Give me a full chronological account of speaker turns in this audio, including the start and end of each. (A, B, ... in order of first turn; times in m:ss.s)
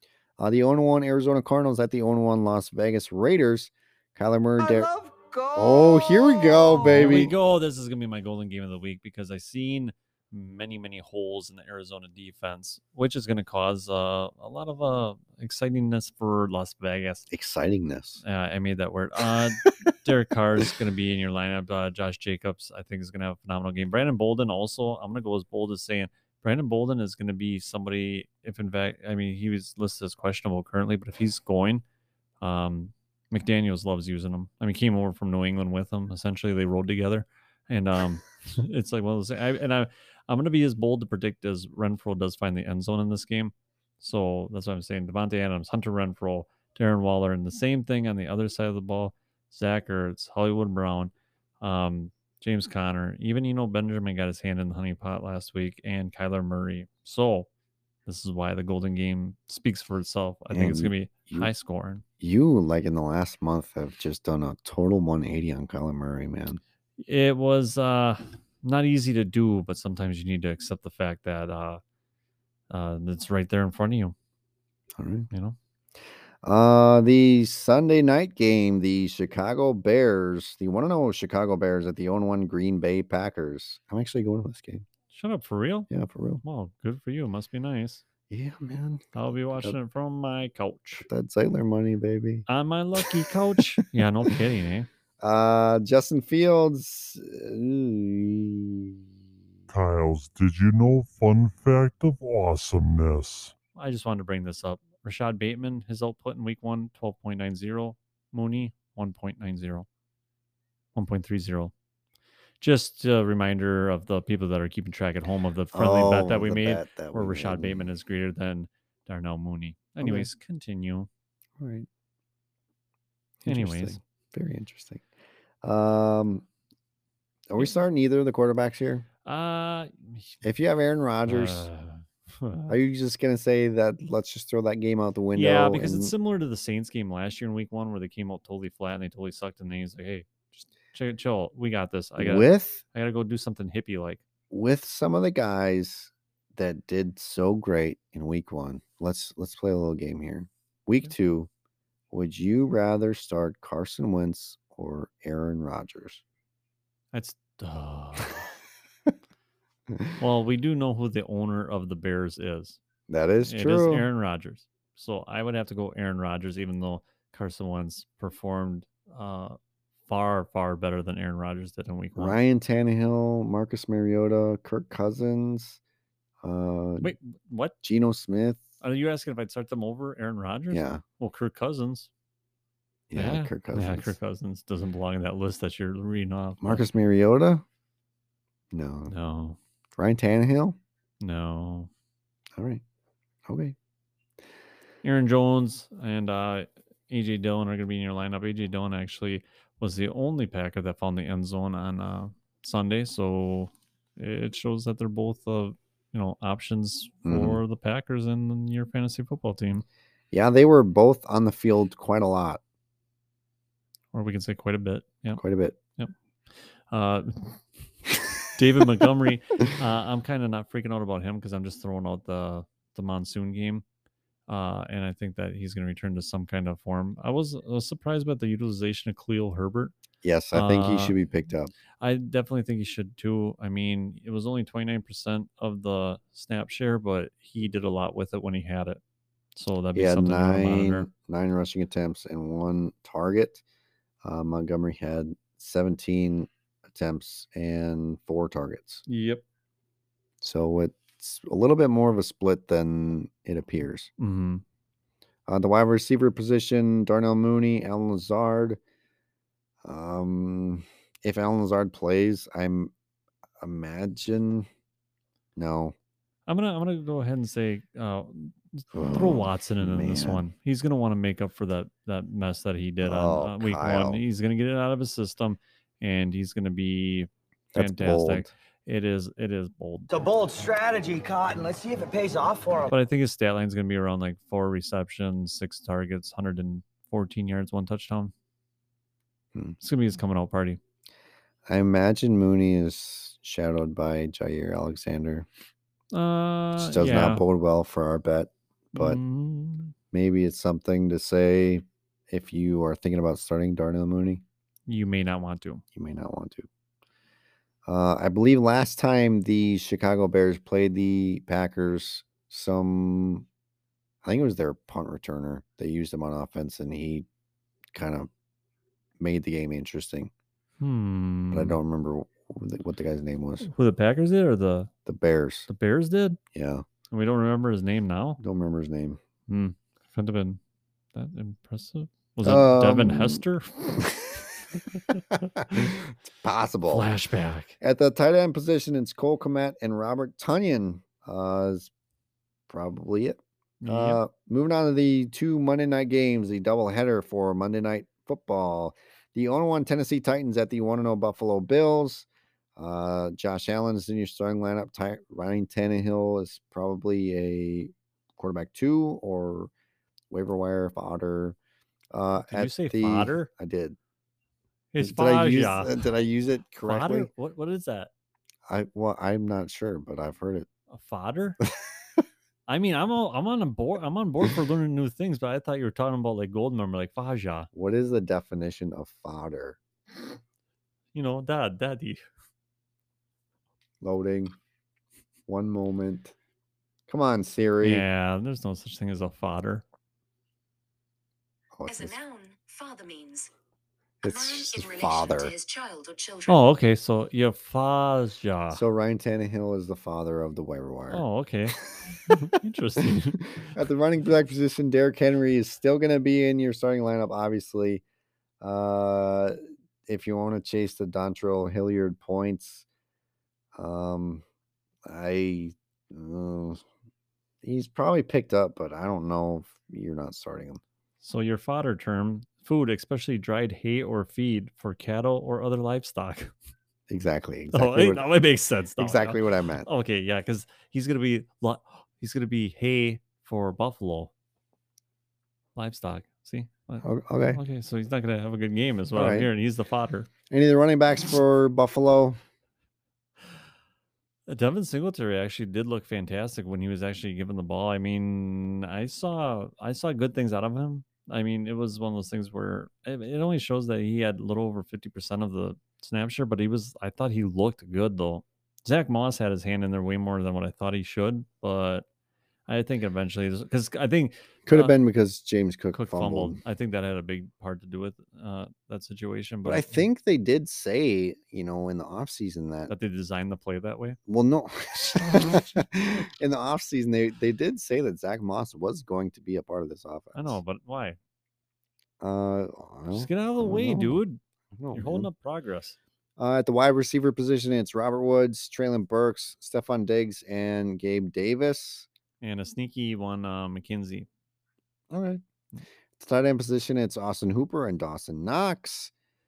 0:00.4-0:04.9 A
0:04.6-0:07.3 B
0:05.5-0:07.3 A
0:06.8-0:17.3 C
0:17.3-0:18.2 A
0:18.2-0:31.8 C
0:32.4-0:57.5 C
0:58.0-1:02.0 C
1:00.5-1:01.5 A
1:02.2-1:06.6 A
1:07.0-1:11.8 C
1:12.7-1:14.1 C
1:15.0-1:15.3 A
1:15.3-1:15.6 C
1:16.4-1:24.8 A
1:25.1-1:25.9 C
1:25.9-1:26.4 A
1:26.4-1:28.0 C
1:28.3-1:29.7 A
1:29.1-1:31.1 C
1:31.0-1:32.4 A
1:32.5-1:34.9 C
1:35.2-1:39.0 A
1:39.7-1:43.5 D
1:43.7-1:49.9 C
1:50.9-1:51.7 C
1:52.6-2:01.1 C
1:55.7-1:57.9 A
2:00.0-2:00.3 A
2:01.6-2:01.9 A
2:03.4-2:05.0 A
2:03.4-2:04.0 C
2:05.6-2:06.4 A
2:07.5-2:09.0 A
2:09.2-2:10.4 C
2:10.4-2:11.7 A
2:11.2-2:12.8 C
2:12.7-2:16.1 A
2:15.3-2:24.2 C
2:22.2-2:22.8 A
2:24.5-2:31.5 A
2:32.1-2:36.2 A
2:37.1-2:38.5 C
2:39.9-2:40.2 A
2:40.2-2:42.8 C
2:43.1-2:44.0 A
2:43.4-2:52.4 C
2:52.2-2:55.8 A
2:56.4-2:57.1 A
2:57.0-2:57.8 C
2:57.8-2:58.6 A
2:58.8-3:02.1 C
3:00.7-3:01.0 A
3:03.1-3:04.2 A
3:03.2-3:06.8 C
3:06.6-3:07.6 A
3:08.7-3:09.1 A
3:09.1-3:09.6 C
3:10.0-3:10.8 A
3:11.2-3:11.9 C
3:12.6-3:12.8 A
3:13.4-3:13.8 A
3:15.0-3:29.8 C
3:27.2-3:27.6 A
3:30.3-3:32.6 A
3:34.1-3:35.4 C
3:35.4-3:35.8 A
3:36.9-3:37.6 C
3:38.5-3:43.8 C
3:44.5-3:49.9 C
3:50.2-3:51.7 A
3:50.5-3:51.2 C
3:52.0-3:59.0 C
3:59.6-4:01.1 C
3:59.9-4:03.6 A
4:04.2-4:09.0 A
4:09.1-4:09.4 C
4:10.4-4:14.1 A
4:14.2-4:14.6 C
4:15.5-4:18.8 A
4:19.8-4:22.9 A
4:23.6-4:24.7 A
4:25.6-4:25.9 A
4:26.5-4:40.1 C
4:28.9-4:30.4 A
4:33.0-4:34.2 A
4:37.7-4:38.5 A
4:40.1-4:42.9 B
4:42.9-4:48.3 C
4:49.8-4:50.8 C
4:51.6-4:55.5 A
4:56.1-4:57.4 C
4:56.8-4:59.2 A
4:58.9-4:59.9 C
5:00.1-5:04.4 A
5:04.9-5:05.8 C
5:05.9-5:06.7 A
5:07.9-5:13.4 A
5:14.2-5:17.2 A
5:17.9-5:18.3 A
5:19.2-5:20.3 A
5:20.8-5:21.8 C
5:21.5-5:23.7 A
5:23.6-5:24.9 C
5:25.0-5:25.7 A
5:25.7-5:26.4 C
5:26.5-5:26.8 A
5:27.1-5:28.4 C
5:28.4-5:29.2 A
5:29.5-5:30.6 C
5:31.1-5:33.7 C
5:32.4-5:37.1 A
5:36.9-5:37.8 C
5:37.8-5:41.9 A
5:42.7-5:52.2 A
5:43.8-5:44.2 C
5:52.8-5:59.7 A
6:00.3-6:01.6 A
6:02.1-6:04.0 A
6:02.4-6:03.5 C
6:04.9-6:06.0 C
6:05.0-6:07.3 A
6:06.8-6:08.1 C
6:08.7-6:10.7 A
6:10.9-6:11.6 C
6:12.7-6:17.7 C
6:17.7-6:19.8 A
6:21.1-6:22.2 C
6:24.0-6:24.5 A
6:25.5-6:26.3 A
6:27.1-6:28.0 A
6:27.8-6:29.8 C
6:31.7-6:32.2 A
6:31.9-6:33.5 E
6:34.2-6:35.5 A
6:34.2-6:36.6 E
6:36.5-6:38.8 C
6:38.7-6:41.2 A
6:41.1-6:43.7 C
6:43.0-6:48.0 A
6:48.6-6:52.8 A
6:53.8-6:54.4 A
6:55.0-6:56.8 A
6:57.6-7:00.8 A
7:01.2-7:06.5 C
7:07.1-7:08.2 A
7:07.7-7:14.3 C
7:09.0-7:09.9 A
7:15.8-7:20.3 C
7:17.0-7:17.6 A
7:19.1-7:19.5 A
7:20.5-7:22.4 A
7:24.5-7:42.0 C
7:42.7-7:44.9 C
7:44.6-7:46.6 A
7:45.9-7:50.0 C
7:49.6-7:52.9 A
7:52.9-7:54.2 C
7:54.3-8:00.6 A
7:55.3-7:55.6 C
8:00.3-8:01.2 C
8:02.2-8:04.2 A
8:03.1-8:04.4 C
8:04.7-8:05.3 A
8:04.9-8:06.0 C
8:06.4-8:12.1 A
8:12.4-8:14.3 C
8:15.1-8:15.4 A
8:16.2-8:19.1 A